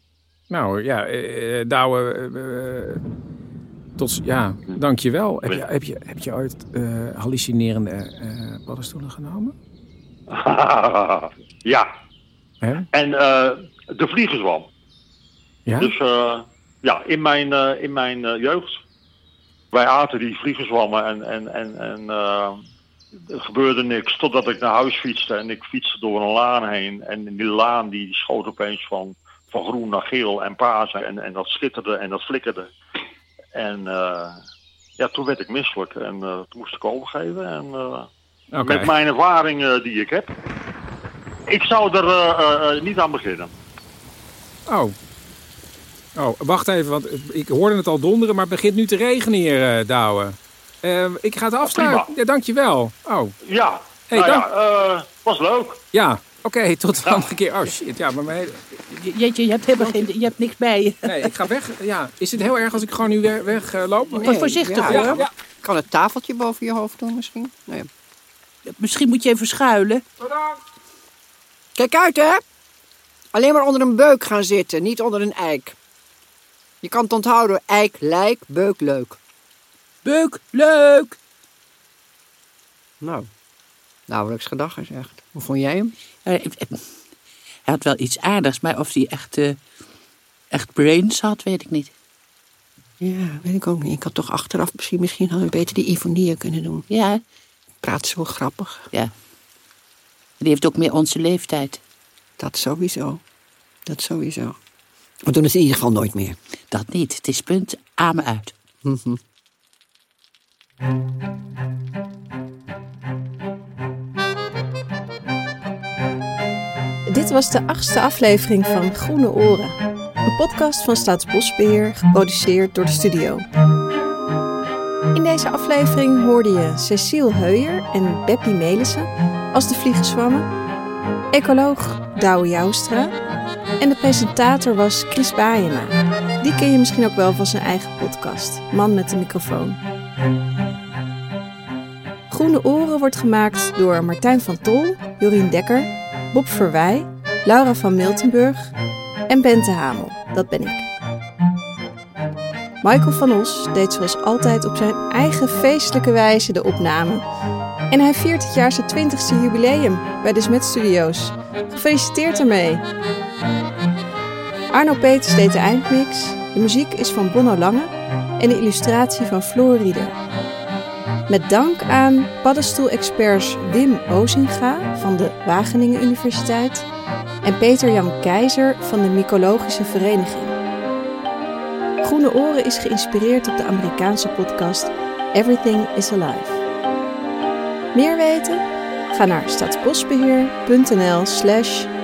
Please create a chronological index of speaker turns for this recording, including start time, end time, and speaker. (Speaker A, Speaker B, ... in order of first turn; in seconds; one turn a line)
Speaker A: 0.5-3.0
Speaker A: 4.0-9.5
Speaker B: 10.3-11.9
Speaker A: 12.6-12.9
Speaker B: 12.9-14.7
Speaker A: 15.7-15.9
Speaker B: 15.8-18.8
Speaker B: 19.7-22.6
Speaker B: 23.3-32.7
Speaker B: 33.5-34.4
Speaker B: 35.0-38.1
Speaker A: 38.5-38.9
Speaker B: 38.6-40.3
Speaker B: 41.5-43.5
Speaker A: 44.7-45.0
Speaker A: 46.1-53.4
Speaker B: 51.7-52.1
Speaker B: 53.5-55.8
Speaker A: 54.1-54.5
Speaker A: 55.9-58.8
Speaker C: 58.9-61.4
Speaker A: 61.0-65.3
Speaker D: 64.2-67.9
Speaker C: 64.2-65.3
Speaker C: 68.7-70.0
Speaker A: 70.2-70.6
Speaker D: 71.8-72.4
Speaker D: 73.3-75.8
Speaker D: 76.8-79.2
Speaker C: 80.0-81.2
Speaker D: 83.0-83.3
Speaker D: 84.1-85.9
Speaker C: 86.2-86.9
Speaker C: 87.7-89.6
Speaker C: 90.5-91.9
Speaker D: 93.0-96.9
Speaker C: 96.9-97.2
Speaker D: 97.8-98.9
Speaker C: 100.4-101.8
Speaker D: 102.4-103.2
Speaker D: 103.9-104.6
Speaker D: 105.2-106.4
Speaker C: 106.7-108.5
Speaker D: 108.8-109.2
Speaker E: 117.1-119.7
Speaker E: 120.2-123.5
Speaker E: 125.1-130.4
Speaker E: 131.3-133.1
Speaker E: 133.8-139.8
Speaker E: 142.3-148.7
Speaker E: 149.3-150.9
Speaker E: 152.8-157.2
Speaker E: 157.9-162.8
Speaker E: 164.7-170.2
Speaker E: 171.3-176.8
Speaker E: 177.4-180.6
Speaker E: 182.0-186.6
Speaker E: 187.9-191.9